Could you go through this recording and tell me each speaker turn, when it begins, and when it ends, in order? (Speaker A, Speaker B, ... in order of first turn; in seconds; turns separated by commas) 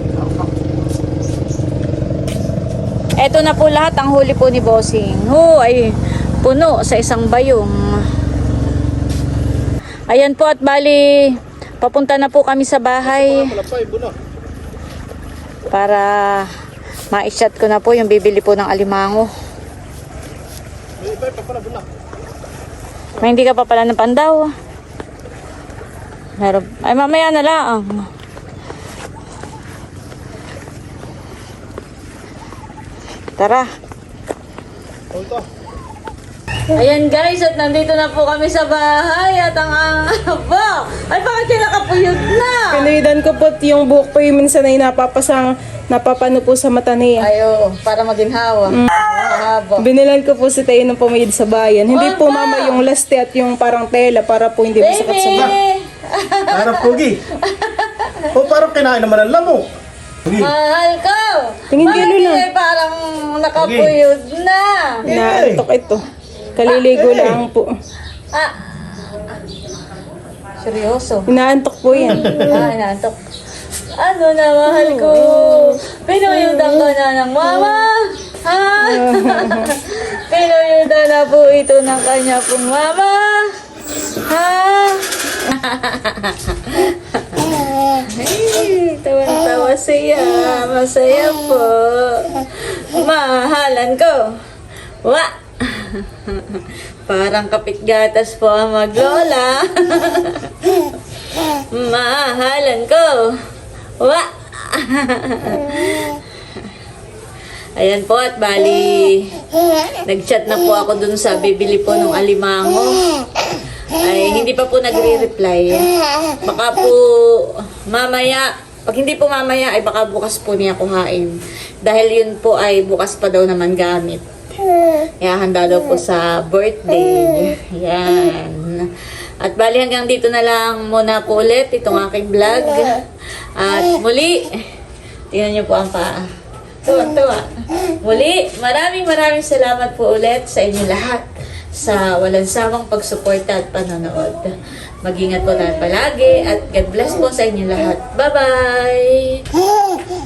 Speaker A: 3.2-7.7, Speaker A: 10.1-13.5, Speaker B: 13.0-14.1, Speaker A: 15.7-16.5, Speaker A: 17.1-19.3, Speaker B: 21.0-21.9, Speaker A: 23.2-24.5, Speaker A: 26.4-28.1, Speaker A: 33.4-33.7, Speaker B: 35.1-35.5, Speaker A: 36.7-42.9, Speaker C: 42.7-47.2, Speaker A: 47.2-49.9, Speaker C: 49.8-55.5, Speaker A: 51.9-52.8, Speaker A: 54.8-58.3, Speaker B: 56.5-57.2, Speaker B: 58.3-59.7, Speaker B: 60.2-60.5, Speaker A: 60.3-65.1, Speaker C: 61.7-62.5, Speaker B: 63.6-63.9, Speaker C: 65.0-66.0, Speaker B: 65.1-65.6, Speaker C: 66.5-67.7, Speaker A: 66.7-67.2, Speaker B: 67.0-67.4, Speaker A: 70.6-71.3, Speaker C: 71.3-72.7, Speaker A: 72.0-73.2, Speaker B: 72.1-72.5, Speaker A: 74.0-83.5, Speaker C: 74.8-75.7, Speaker C: 78.8-79.7, Speaker A: 84.3-94.3, Speaker A: 95.0-100.5, Speaker A: 101.7-103.3, Speaker A: 104.0-106.2, Speaker A: 107.8-109.4, Speaker A: 110.0-113.1, Speaker A: 114.0-115.9, Speaker A: 116.4-124.2, Speaker A: 125.2-128.9, Speaker A: 129.4-133.0, Speaker A: 133.6-134.7, Speaker A: 135.3-136.2, Speaker A: 136.8-149.4